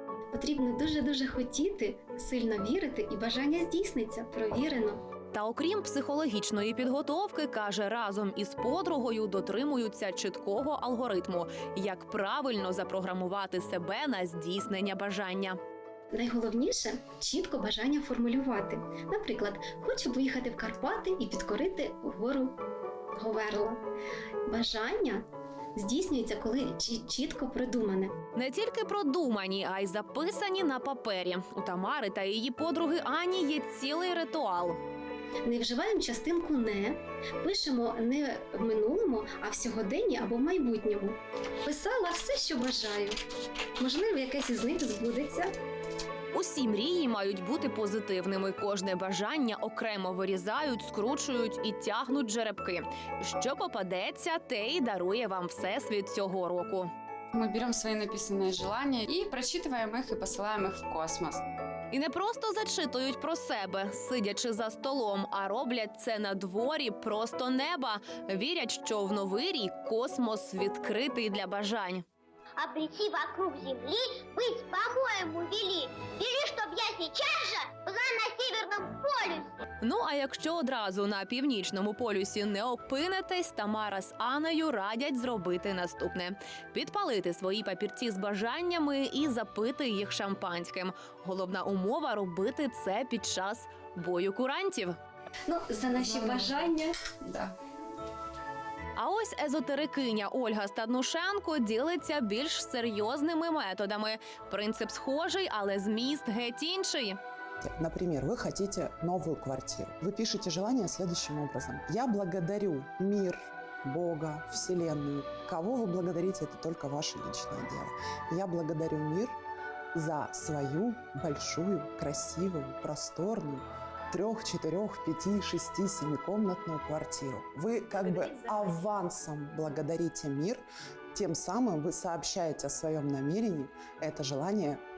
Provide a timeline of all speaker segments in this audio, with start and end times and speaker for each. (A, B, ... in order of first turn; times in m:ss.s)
0:00.3-0:05.0 A
0:05.3-0:15.6 B
0:16.1-0:22.6 A
0:23.2-0:23.8 A
0:24.5-0:25.2 A
0:25.8-0:28.1 A
0:28.4-0:34.8 B
0:35.4-0:43.1 A
0:43.8-0:45.5 A
0:46.3-0:56.9 B
0:57.3-1:01.4 C
1:01.9-1:12.0 B
1:12.6-1:19.5 D
1:19.8-1:35.0 B
1:35.4-1:37.0 A
1:36.0-1:36.6 C
1:37.2-1:37.5 C
1:39.0-1:47.2 B
1:47.6-1:59.3 E
1:59.9-2:14.8 E
2:07.9-2:08.9 B